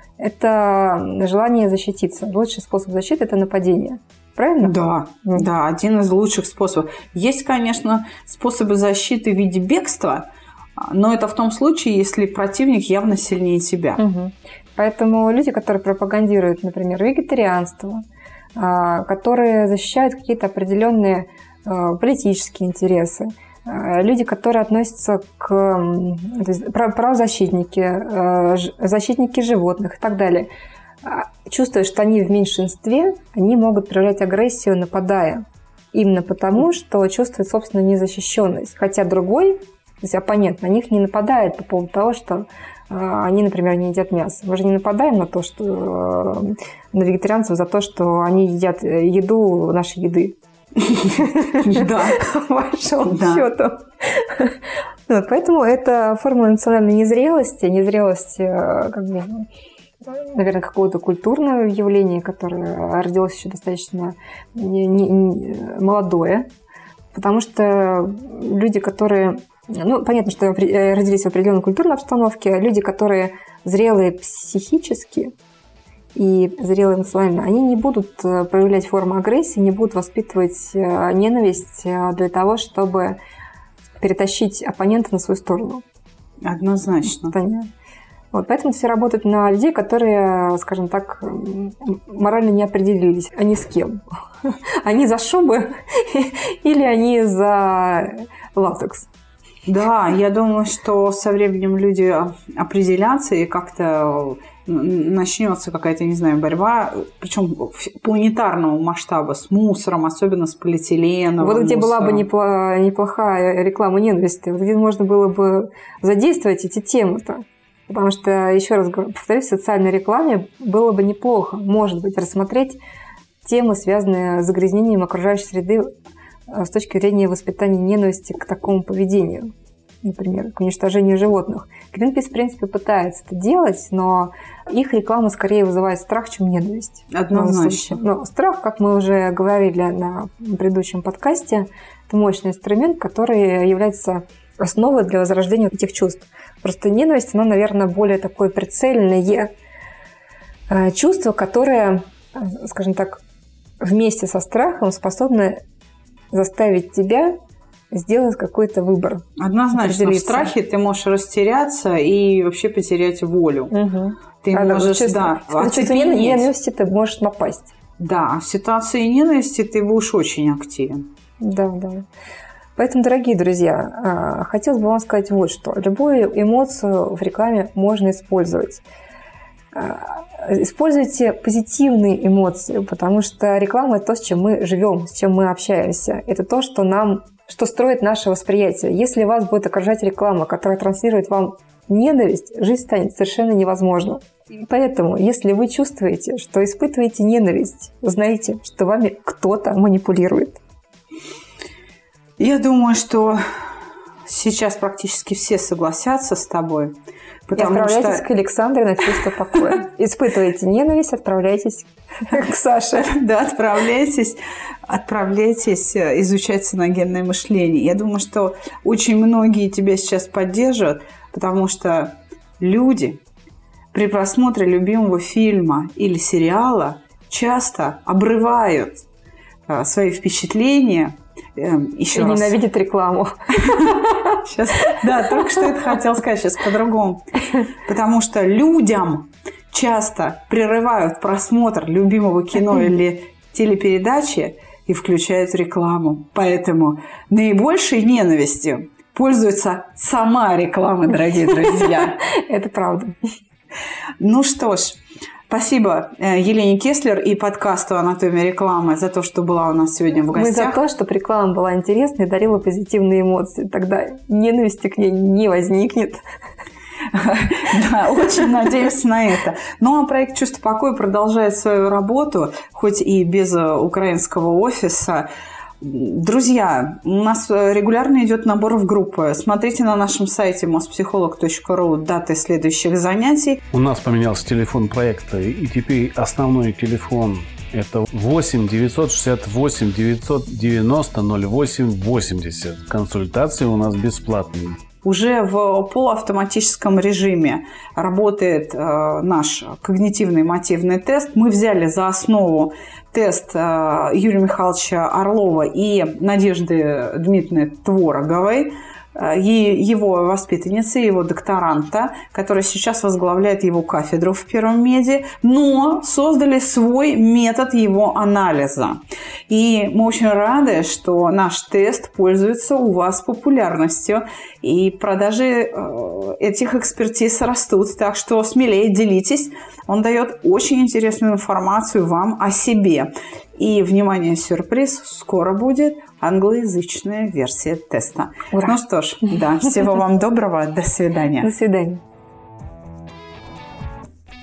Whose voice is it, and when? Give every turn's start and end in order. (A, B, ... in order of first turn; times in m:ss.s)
0:00.2-0:05.4 A
0:04.6-0:14.0 B
0:14.0-0:18.0 A
0:18.6-0:30.5 A
0:31.0-0:50.4 A
0:50.9-0:59.4 A
0:51.6-0:52.2 B
0:53.0-0:53.5 B
1:00.0-1:06.5 A
1:07.1-1:15.3 A
1:16.1-1:23.2 A
1:24.0-1:25.8 A
1:26.4-1:27.4 B
1:27.1-1:27.7 A
1:28.3-1:39.1 A
1:39.6-1:52.2 B
1:51.4-2:02.8 A
2:03.4-2:05.9 A
2:06.5-2:09.5 A
2:10.0-2:29.5 A
2:17.1-2:18.0 B
2:30.7-2:33.2 A
2:33.8-2:35.6 A
2:36.3-2:37.4 A
2:37.9-2:40.5 A
2:39.4-2:43.7 B
2:43.7-2:47.7 A
2:44.4-2:46.5 B
2:48.0-2:51.1 B
2:51.4-2:52.0 A
2:52.8-2:58.8 A
2:59.7-3:20.6 A
3:22.4-3:23.4 B
3:24.2-3:28.3 B
3:27.5-3:33.1 A
3:33.0-3:43.2 B
3:43.9-3:49.0 B
3:49.7-3:52.6 B
3:52.1-3:55.6 A
3:53.6-3:57.3 B
3:57.8-4:12.2 B
4:11.5-4:13.2 A
4:14.2-4:20.8 B
4:20.3-4:26.2 A
4:27.1-4:35.3 B
4:35.8-4:43.6 B
4:43.7-4:54.8 C
4:55.0-5:41.5 B
5:38.5-5:38.8 A
5:41.4-5:42.0 A